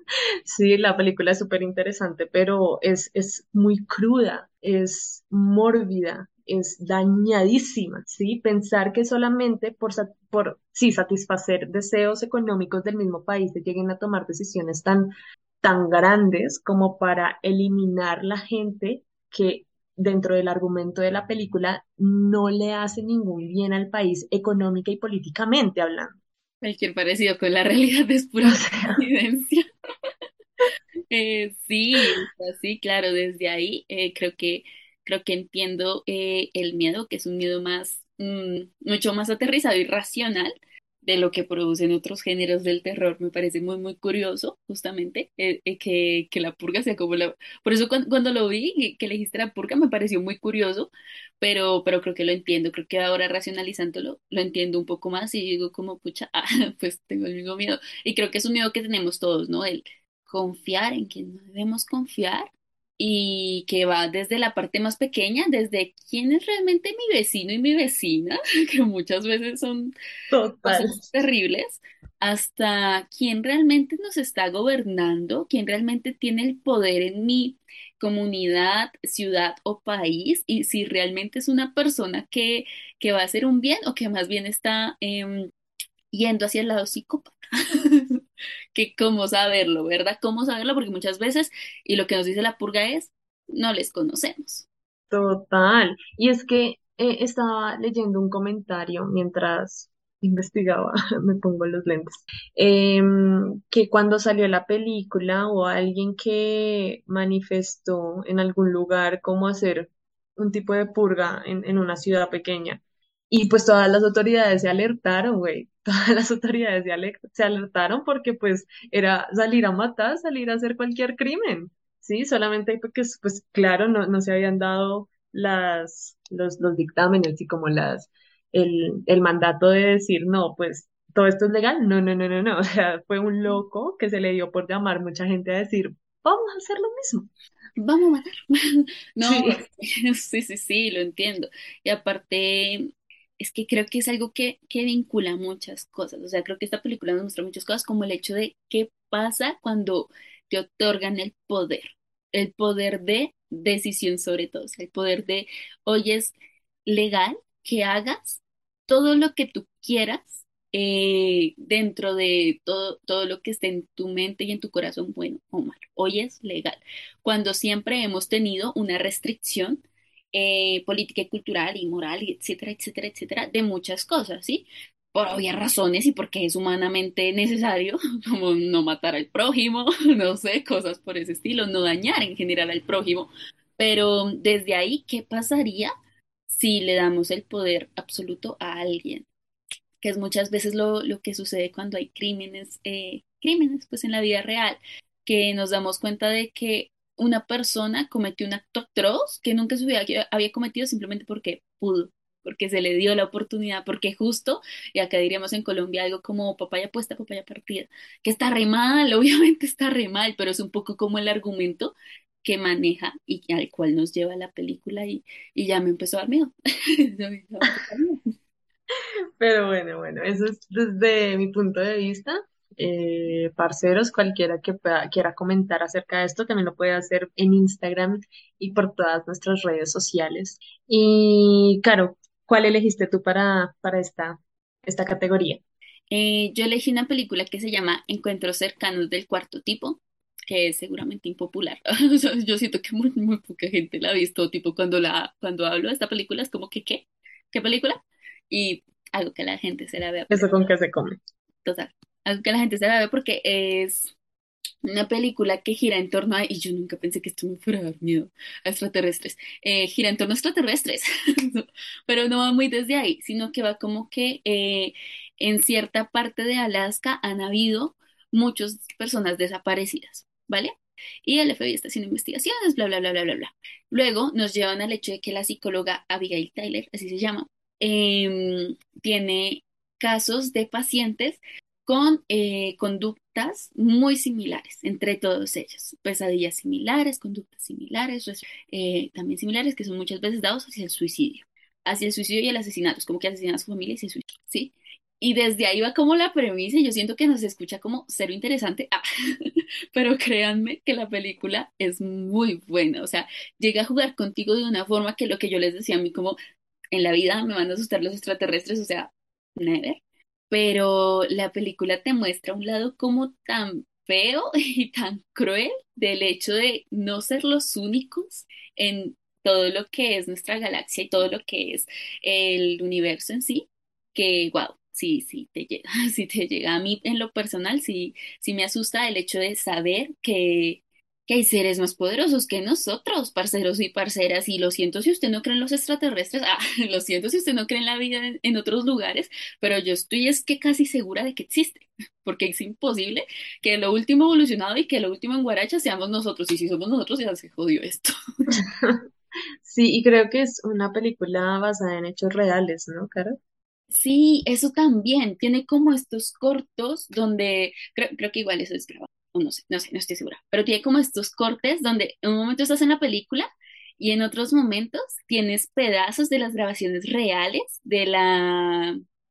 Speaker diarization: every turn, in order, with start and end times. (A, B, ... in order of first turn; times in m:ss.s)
0:00.5-0:15.1 A
0:15.6-0:26.1 A
0:26.6-0:29.6 B
0:28.4-0:29.0 A
0:31.1-1:09.9 B
1:10.3-1:11.0 A
1:10.6-1:25.5 B
1:26.1-1:28.2 B
1:28.7-1:34.7 B
1:35.1-2:17.3 A
2:17.8-2:18.6 B
2:19.1-2:36.3 B
2:19.2-2:19.6 A
2:36.8-3:05.9 B
3:06.5-3:09.3 B
3:10.0-3:38.3 B
3:39.4-3:55.6 A
3:56.1-4:08.0 B
4:08.5-4:10.5 B
4:10.3-4:11.2 A
4:11.6-4:14.1 B
4:14.8-4:30.7 B
4:31.2-5:06.4 B
5:06.9-5:10.0 B
5:10.5-5:48.6 B
5:48.5-5:49.0 A
5:49.6-5:53.4 A
5:53.9-6:09.0 B